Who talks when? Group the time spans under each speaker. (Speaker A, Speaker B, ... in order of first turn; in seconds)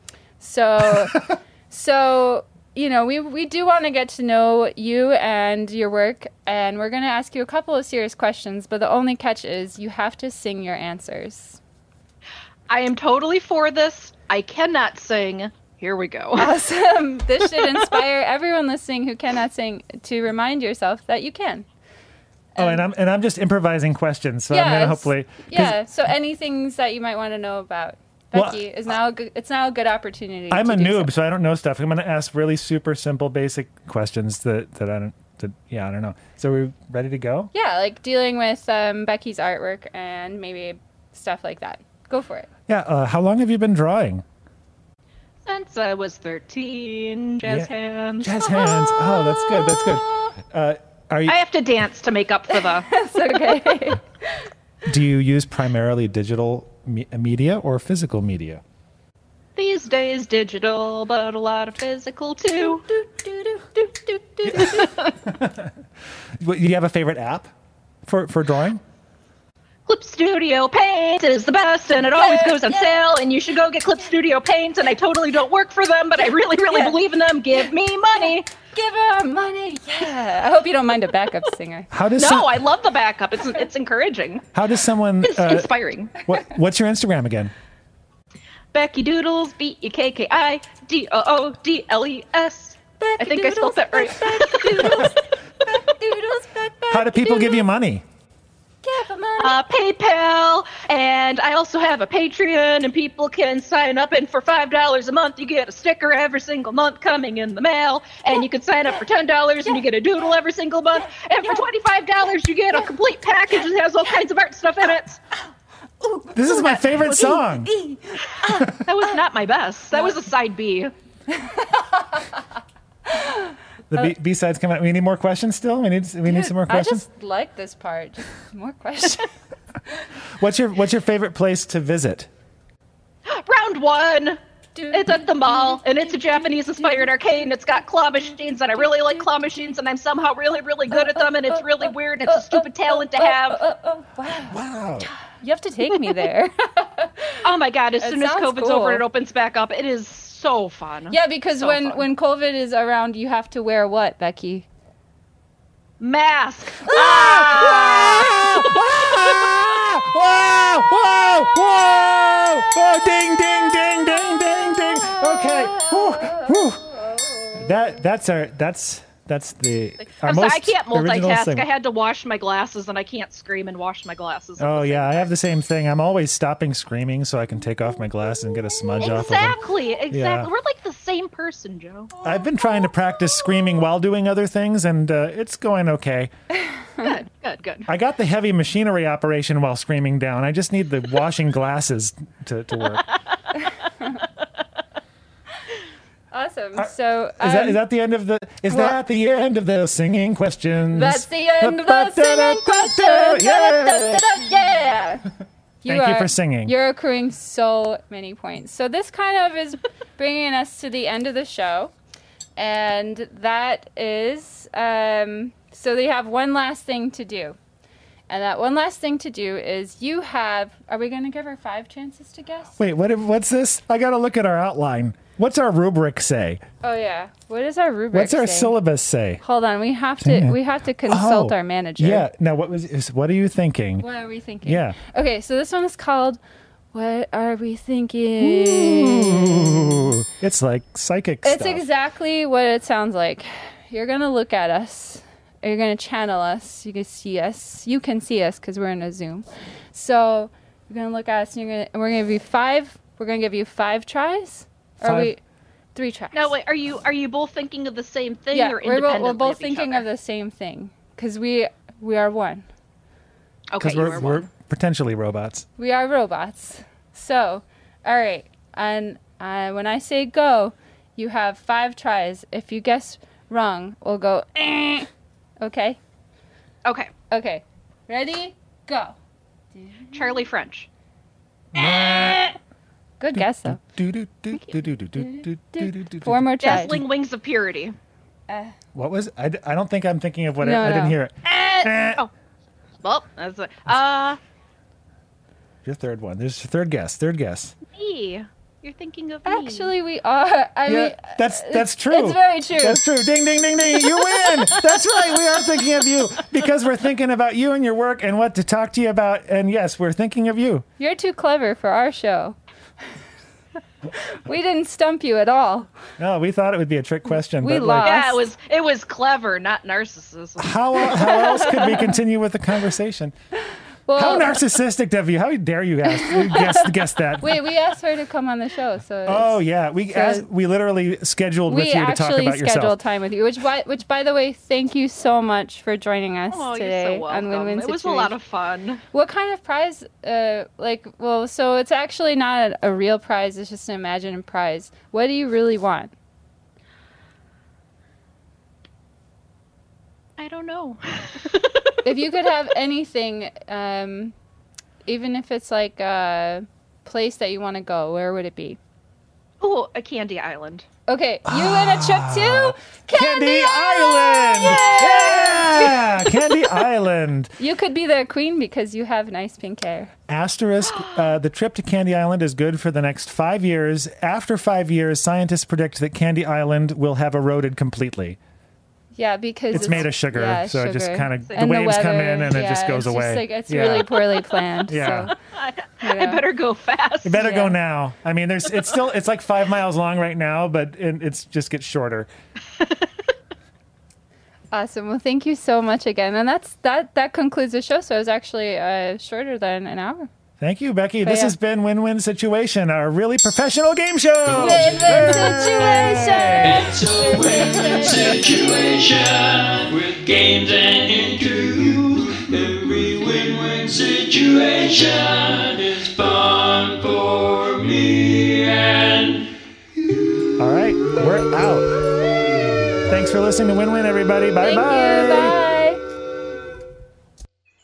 Speaker A: 0.4-11.6, 16.4-21.6, 22.6-22.8, 24.5-31.1, 37.5-42.5, 52.8-54.0, 63.1-63.6, 72.1-73.0, 78.7-81.9, 93.0-97.7, 98.8-99.6, 116.1-118.8, 126.2-129.3, 134.8-135.8, 136.4-137.0, 138.7-139.3, 140.9-147.4, 148.0-149.0, 151.1-154.7, 164.9-167.6, 196.3-197.8, 200.9-205.2, 205.8-211.9, 212.6-217.6, 218.3-222.8, 226.8-228.8, 229.4-232.3, 234.0-236.4, 236.9-239.9, 241.4-255.4, 255.9-256.5, 258.5-262.6, 265.8-275.1, 275.6-276.0, 277.3-279.1, 279.8-280.4, 283.2-283.8, 285.2-287.0, 288.5-288.7, 290.6-291.2, 299.4-303.0, 304.2-304.7, 311.0-312.6, 314.1-315.9, 317.6-318.4, 321.1-322.1, 324.1-324.6, 326.1-330.4, 331.7-338.3, 339.1-346.1, 352.0-354.3, 355.1-358.8, 361.1-365.7, 367.6-370.1, 379.1-385.3, 386.0-386.4, 387.3-387.8, 394.7-400.3, 401.2-401.5, 404.5-408.4, 424.6-426.0
Speaker B: 12.7-16.5, 45.4-48.3, 51.3-52.9, 59.5-65.2, 69.9-78.5, 82.2-84.5, 85.2-86.2, 88.7-95.8, 99.4-115.2, 118.4-120.9, 133.3-134.4, 134.9-143.6, 147.4-152.0, 156.0-158.5, 170.2-175.3, 179.0-182.2, 187.0-187.9, 256.3-260.0, 263.7-264.4, 276.8-277.1, 280.1-280.9, 286.6-287.9, 291.7-292.3, 293.0-294.4, 297.9-299.9, 318.0-321.5, 336.5-339.0, 350.4-352.0, 359.6-360.9, 364.6-365.6, 370.9-371.2, 379.8-380.0, 381.4-381.7, 385.5-387.4
Speaker C: 22.6-25.8, 28.3-28.6, 30.5-37.5, 42.7-44.2, 47.4-47.7, 48.2-51.4, 54.8-58.6, 65.2-65.7, 66.4-67.5, 68.0-68.8, 81.9-82.6, 84.5-85.7, 86.2-87.5, 96.9-98.0, 116.3-117.7, 123.9-127.0, 130.4-132.3, 144.4-145.1, 156.9-166.9, 167.5-171.7, 174.6-179.6, 180.1-180.5, 182.2-186.3, 187.9-193.0, 196.8-204.3, 205.9-206.7, 222.8-226.6, 228.1-229.4, 230.2-234.0, 234.6-235.0, 238.4-241.8, 255.0-255.3, 263.8-265.6, 281.7-282.5, 283.3-287.0, 288.9-292.2, 295.8-297.7, 300.9-310.8, 316.2-318.2, 320.6-323.3, 324.1-327.6, 329.2-333.0, 361.4-367.5, 370.3-378.4, 379.7-384.3, 384.9-385.3, 387.2-392.3, 400.6-406.8, 420.6-421.9, 423.1-425.6
Speaker D: 406.6-419.5